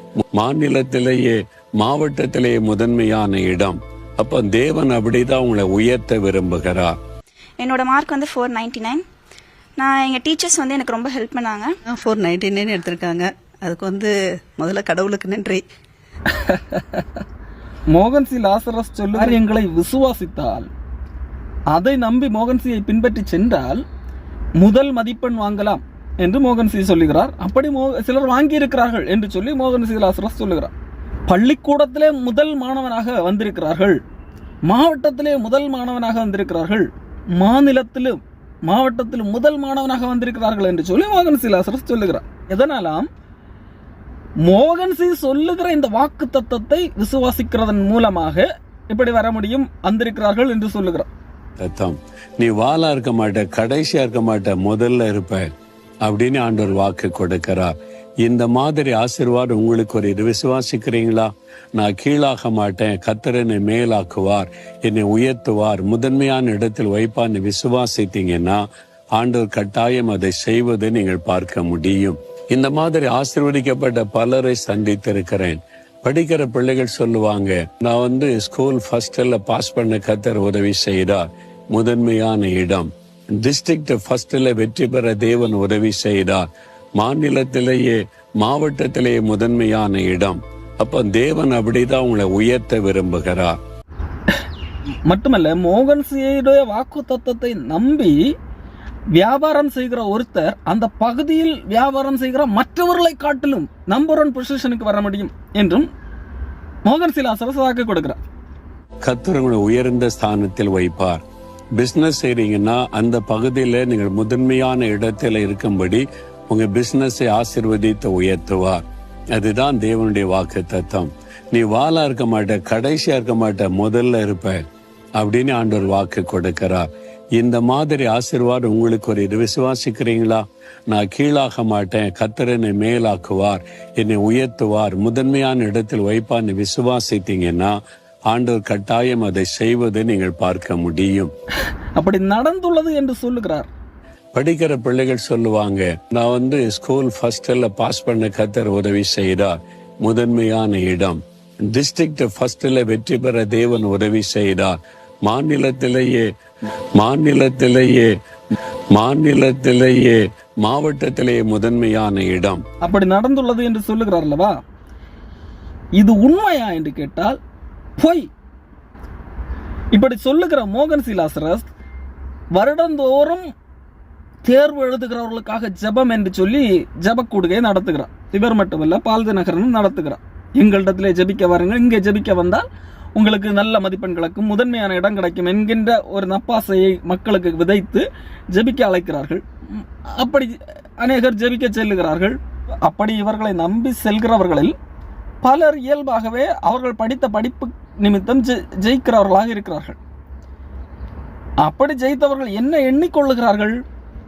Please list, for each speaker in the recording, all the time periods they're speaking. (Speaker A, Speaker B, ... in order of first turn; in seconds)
Speaker A: 0.3-6.9, 51.6-55.5, 56.0-68.6, 69.2-86.4, 87.0-93.5, 109.0-111.2, 111.8-118.8, 119.3-124.6, 125.2-126.8, 127.4-137.7, 138.3-141.3, 144.3-156.2, 157.0-158.1, 158.9-162.6
Speaker B: 7.6-9.0, 9.8-11.7
Speaker C: 11.9-15.6
Speaker D: 17.9-20.7, 21.7-23.8, 24.6-30.7, 31.3-34.0, 34.7-36.9, 37.4-43.1, 44.4-51.1, 95.1-98.2, 99.2-105.9, 106.8-108.2, 142.0-143.7, 162.8-164.5, 166.0-167.4, 168.0-168.3, 169.9-171.7, 172.6-173.5, 174.4-194.7, 195.4-200.0, 201.6-203.7